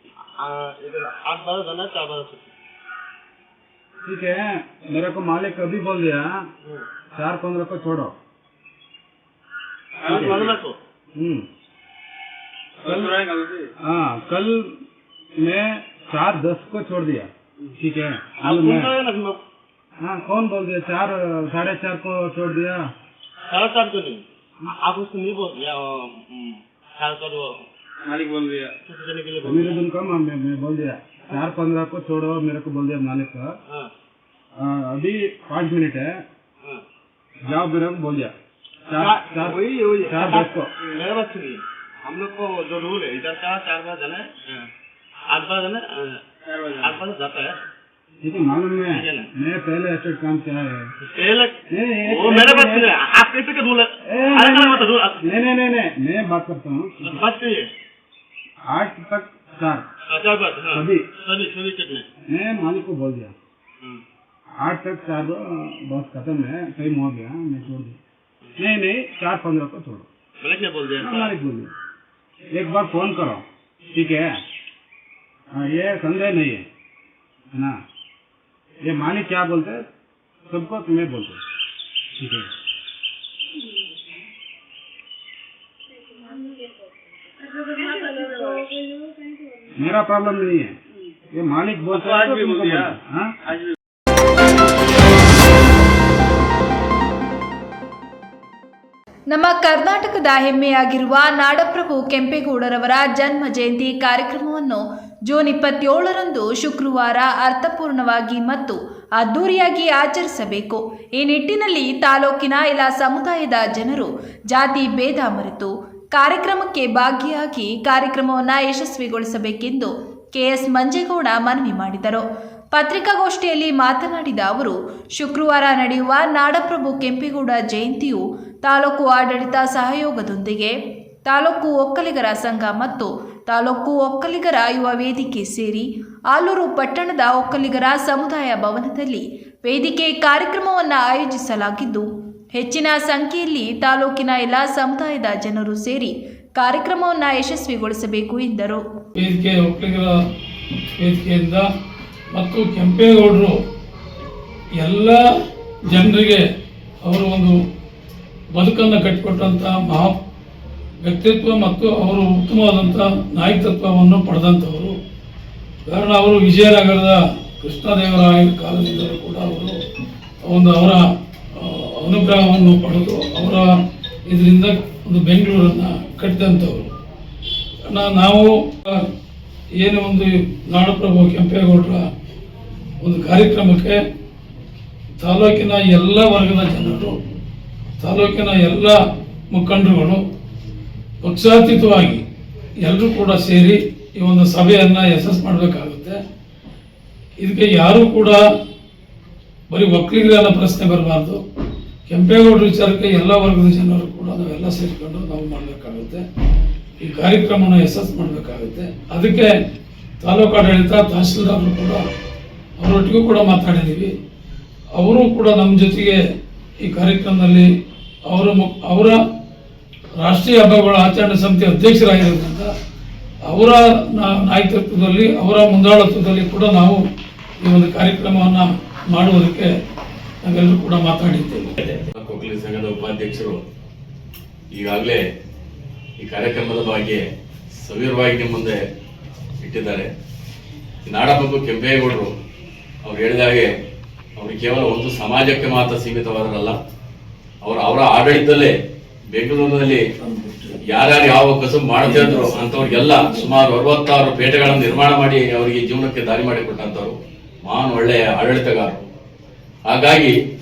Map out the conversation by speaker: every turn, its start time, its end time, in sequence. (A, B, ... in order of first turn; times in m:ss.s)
0:00.4-0:02.5 A
0:04.1-0:06.4 B
0:07.2-0:08.2 B
0:10.0-0:10.8 A
0:10.1-0:10.6 B
0:11.2-0:11.5 B
0:12.8-0:14.7 B
0:15.4-0:18.9 B
0:18.4-0:19.4 A
0:20.0-0:22.9 B
0:23.5-0:24.2 A
0:24.8-0:27.6 A
0:28.1-0:28.7 B
0:28.9-0:29.8 A
0:29.4-0:33.6 B
0:34.6-0:36.2 B
0:37.5-0:38.4 B
0:38.9-0:40.7 B
0:38.9-0:44.3 A
0:45.3-0:46.2 A
0:46.6-0:47.0 B
0:46.8-0:47.5 A
0:48.2-0:50.9 B
0:48.9-0:49.3 A
0:51.0-0:55.2 A
0:51.7-0:52.9 B
0:54.1-0:57.2 B
0:57.0-0:57.7 A
0:58.7-0:59.9 B
1:00.1-1:02.1 A
1:00.7-1:01.0 B
1:02.3-1:03.3 B
1:04.6-1:08.0 B
1:08.6-1:10.1 B
1:10.4-1:11.4 A
1:11.0-1:11.7 B
1:12.6-1:14.3 B
1:15.6-1:16.7 B
1:17.6-1:17.8 B
1:18.8-1:19.8 B
1:20.5-1:21.4 B
1:22.2-1:22.5 B
1:29.8-1:30.7 B
1:31.3-1:33.3 B
1:31.9-1:32.9 A
1:39.3-2:28.8 C
2:29.2-2:30.2 D
2:31.0-2:31.7 D
2:32.3-2:33.6 D
2:34.8-2:35.2 D
2:35.9-2:36.4 D
2:37.1-2:37.6 D
2:38.5-2:40.2 D
2:41.0-2:45.0 D
2:45.9-2:49.8 D
2:50.4-2:51.0 D
2:51.6-2:53.7 D
2:54.3-2:56.9 D
2:57.9-2:59.1 D
2:59.8-3:02.1 D
3:03.0-3:04.0 D
3:05.2-3:07.2 D
3:08.0-3:10.2 D
3:11.2-3:12.2 D
3:12.8-3:16.2 D
3:17.4-3:18.4 D
3:19.7-3:21.4 D
3:22.1-3:26.2 D
3:27.0-3:29.6 D
3:30.2-3:32.0 D
3:32.8-3:34.1 D
3:35.0-3:36.2 D
3:36.8-3:37.7 D
3:38.3-3:39.2 D
3:40.2-3:42.7 D
3:43.5-3:47.0 D
3:47.6-3:49.7 D
3:50.4-3:51.8 D
3:51.8-3:53.6 E
3:54.7-3:55.2 E
3:56.2-3:57.3 E
3:57.8-3:58.8 E
3:59.6-4:00.1 E
4:01.1-4:02.3 E
4:03.0-4:03.7 E
4:04.4-4:06.8 E
4:07.6-4:08.8 E
4:09.3-4:10.0 E
4:10.2-4:10.8 D
4:10.9-4:19.0 E
4:12.0-4:13.5 D
4:19.9-4:20.4 E